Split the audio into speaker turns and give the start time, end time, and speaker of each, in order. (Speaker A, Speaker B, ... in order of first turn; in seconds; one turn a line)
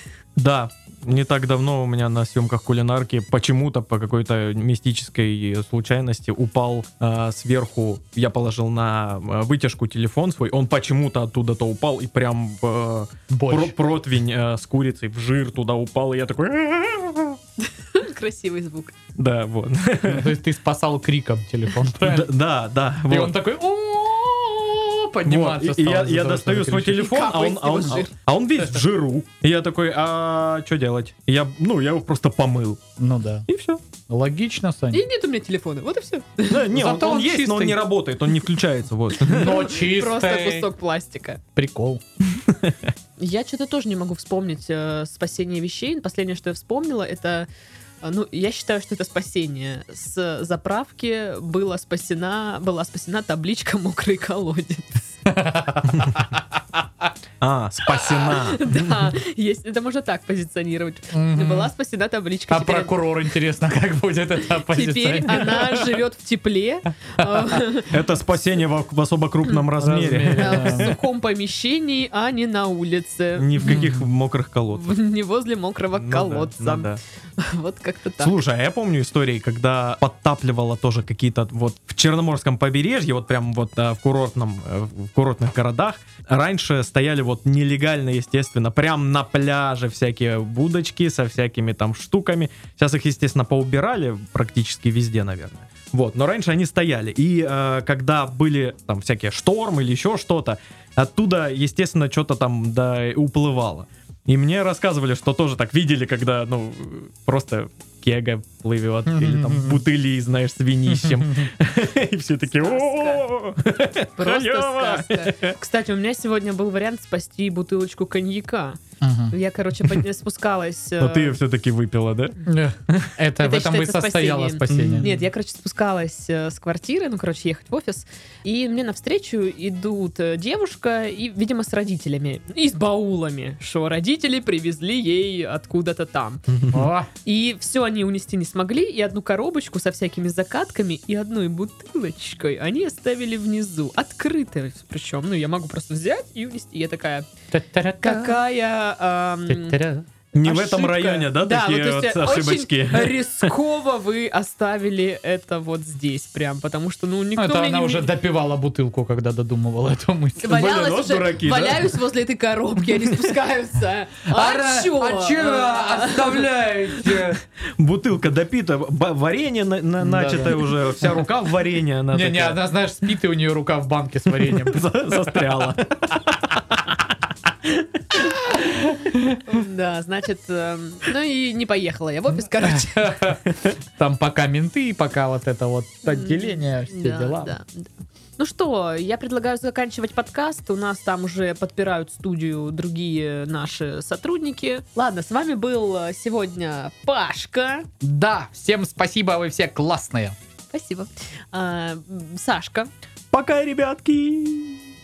Speaker A: 0.4-17.4
Speaker B: 13.3-13.7
Speaker C: 17.6-18.9
Speaker A: 19.1-20.4
Speaker B: 20.1-22.3
Speaker A: 22.0-23.3
Speaker B: 23.1-27.0
Speaker A: 25.2-32.8
Speaker C: 26.9-28.1
Speaker B: 33.0-33.5
Speaker A: 33.5-33.8
Speaker B: 34.1-35.0
Speaker C: 34.9-36.7
Speaker A: 36.5-39.6
Speaker B: 36.7-37.8
Speaker B: 39.2-40.7
Speaker C: 39.3-41.4
Speaker B: 41.5-42.0
Speaker A: 42.5-42.7
Speaker C: 43.2-47.5
Speaker C: 48.0-55.2
Speaker B: 55.3-56.4
Speaker A: 57.4-58.9
Speaker C: 58.1-63.0
Speaker B: 61.1-61.7
Speaker B: 62.5-65.9
Speaker C: 64.7-68.0
Speaker B: 67.2-67.5
Speaker A: 67.9-71.0
Speaker B: 69.8-70.9
Speaker C: 70.3-73.8
Speaker A: 73.4-74.9
Speaker B: 73.6-74.0
Speaker C: 74.7-78.4
Speaker A: 76.0-77.0
Speaker A: 78.2-115.6
Speaker B: 109.0-109.8
Speaker B: 110.9-111.5
Speaker C: 112.5-113.2
Speaker C: 114.2-121.4
Speaker B: 119.0-119.3
Speaker A: 121.0-122.3
Speaker B: 122.5-125.1
Speaker A: 122.9-123.1
Speaker C: 123.4-136.4
Speaker A: 124.7-125.2
Speaker A: 136.5-136.9
Speaker B: 136.7-137.1
Speaker C: 137.2-147.3
Speaker B: 147.5-148.4
Speaker C: 148.0-149.8
Speaker B: 149.5-150.1
Speaker A: 150.3-153.5
Speaker C: 150.4-158.1
Speaker B: 157.4-160.7
Speaker C: 160.4-166.4
Speaker A: 160.5-161.9
Speaker B: 164.3-167.4
Speaker A: 167.8-172.6
Speaker B: 170.0-171.2
Speaker B: 172.1-175.6
Speaker A: 174.5-176.8
Speaker B: 178.6-179.4
Speaker C: 179.4-183.3
Speaker B: 182.6-183.4
Speaker B: 184.0-187.5
Speaker C: 186.1-197.9
Speaker B: 198.0-200.3
Speaker C: 200.7-202.9
Speaker A: 203.3-204.9